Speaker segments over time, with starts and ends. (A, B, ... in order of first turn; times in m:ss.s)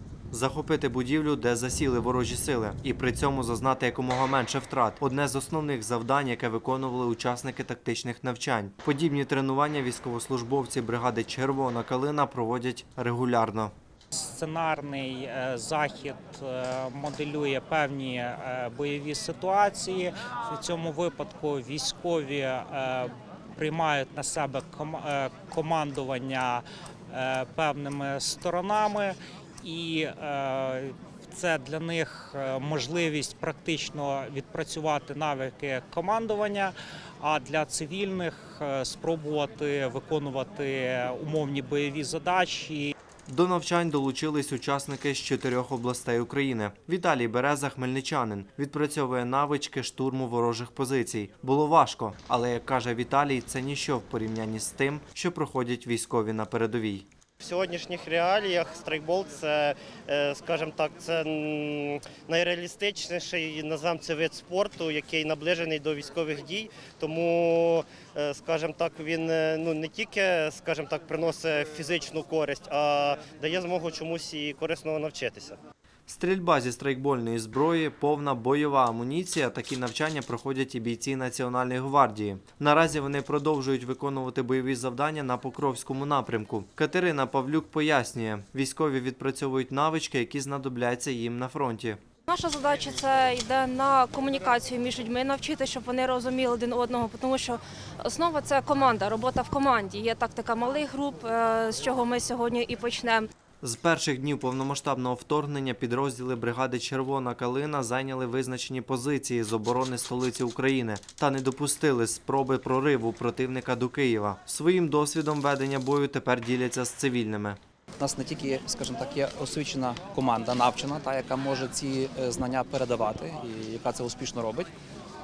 0:00.3-0:13.7 A
0:14.2-0:42.9 B
0:43.3-0:57.1 A
0:57.4-1:15.6 C
1:16.1-1:32.0 A
1:32.3-1:43.3 D
1:43.6-1:57.6 A
1:58.0-2:04.7 E